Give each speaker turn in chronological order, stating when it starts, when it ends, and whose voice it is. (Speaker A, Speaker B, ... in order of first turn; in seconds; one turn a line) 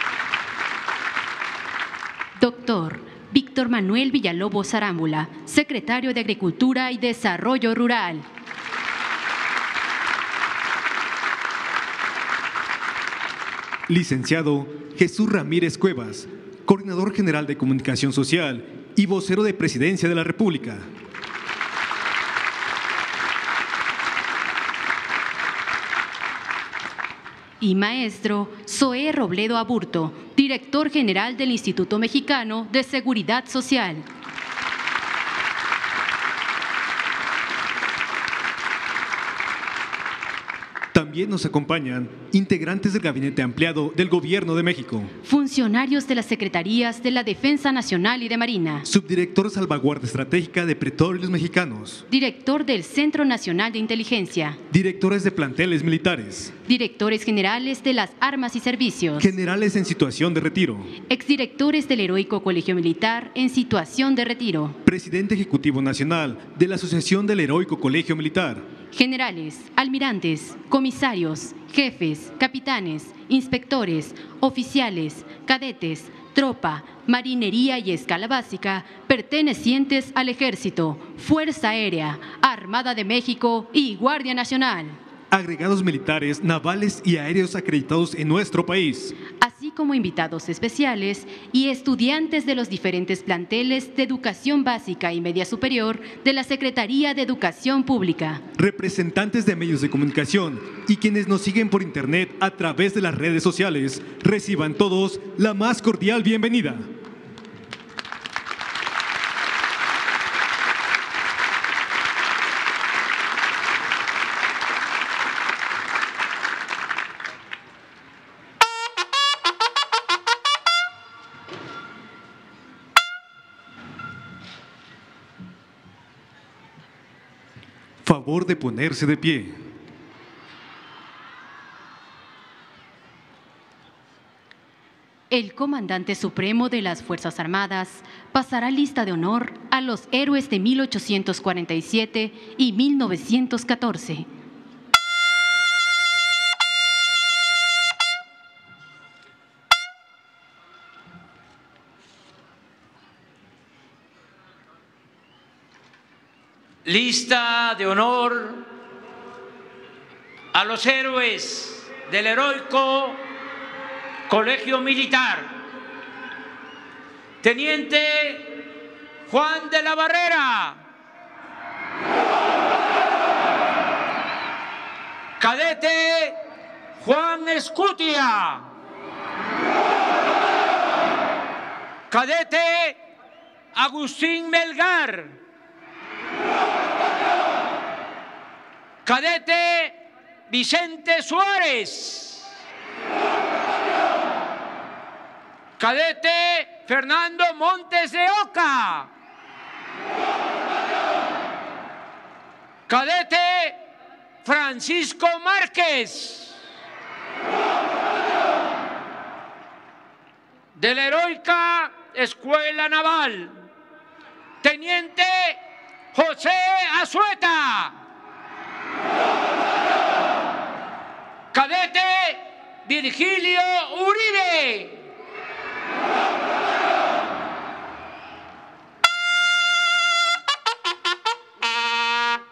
Speaker A: 2.4-8.3
Speaker B: 13.9-20.9
Speaker A: 27.6-34.1
Speaker B: 40.9-45.1
Speaker A: 45.2-48.9
Speaker B: 48.9-52.0
Speaker A: 52.1-54.6
Speaker B: 54.7-56.5
Speaker A: 56.6-59.3
Speaker B: 59.2-61.0
Speaker A: 61.1-64.8
Speaker B: 64.9-68.6
Speaker A: 68.9-85.0
Speaker B: 85.3-89.2
Speaker A: 89.4-98.4
Speaker B: 98.6-106.9
Speaker B: 128.0-129.6
Speaker A: 135.3-144.3
Speaker C: 156.8-158.7
Speaker C: 160.5-163.3
Speaker C: 164.3-165.6
Speaker C: 167.4-168.7
Speaker C: 169.3-170.8
Speaker C: 175.4-176.4
Speaker C: 177.0-178.7
Speaker C: 182.1-183.0
Speaker C: 183.7-185.4
Speaker C: 189.1-190.0
Speaker C: 190.5-192.5
Speaker C: 195.8-199.1
Speaker C: 202.9-203.8
Speaker C: 204.4-206.6
Speaker C: 210.8-213.6
Speaker C: 214.6-215.6
Speaker C: 216.1-218.0
Speaker C: 221.5-225.1